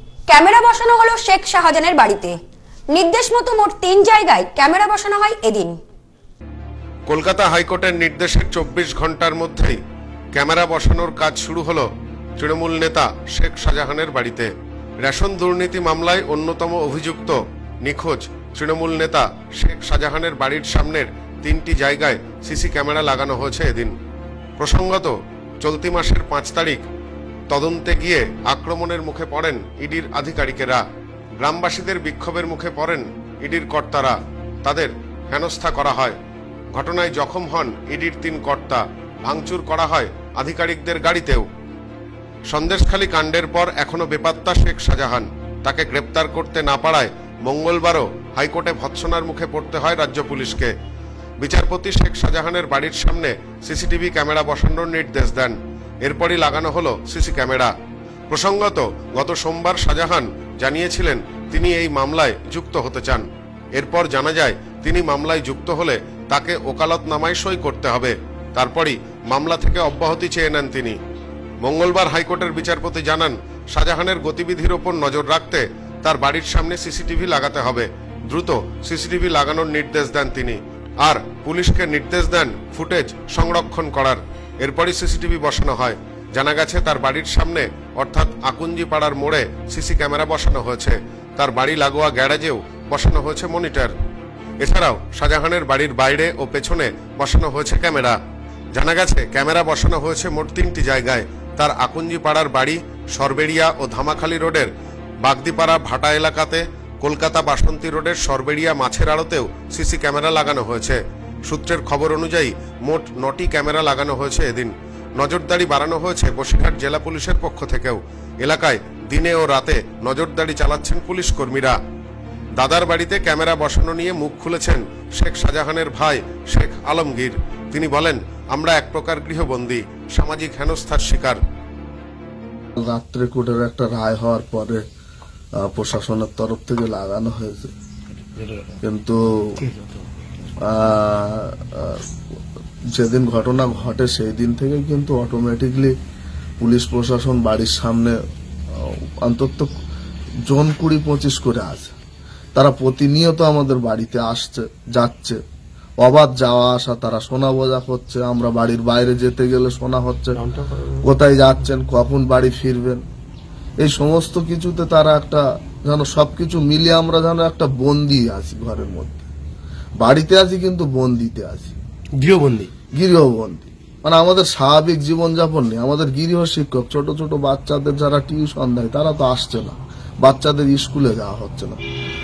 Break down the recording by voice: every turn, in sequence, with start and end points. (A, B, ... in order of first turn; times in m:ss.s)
0:00.3-0:02.4 A
0:02.9-0:05.8 A
0:07.1-0:09.8 B
0:10.3-0:11.9 B
0:12.4-0:14.5 B
0:15.0-0:23.9 B
0:24.6-0:26.8 B
0:27.5-0:30.8 B
0:31.4-0:36.2 B
0:36.7-0:41.4 B
0:42.5-0:50.7 B
0:51.4-0:57.7 B
0:58.3-1:11.0 B
1:11.6-1:33.9 B
1:34.6-1:38.2 B
1:38.7-1:44.7 B
1:45.2-2:01.8 B
2:02.6-2:11.4 B
2:12.8-2:14.8 C
2:15.6-2:17.7 C
2:18.4-2:18.8 D
2:18.8-2:19.6 C
2:19.6-2:20.0 D
2:20.7-2:22.0 C
2:22.9-2:25.9 C
2:26.6-2:28.2 C
2:28.8-2:29.7 C
2:30.4-2:31.9 C
2:32.5-2:35.4 C
2:36.0-2:40.4 C
2:40.3-2:41.1 D
2:41.0-2:43.0 C
2:43.8-2:49.2 C
2:50.0-2:51.7 C
2:52.2-2:52.7 D
2:53.0-3:01.8 C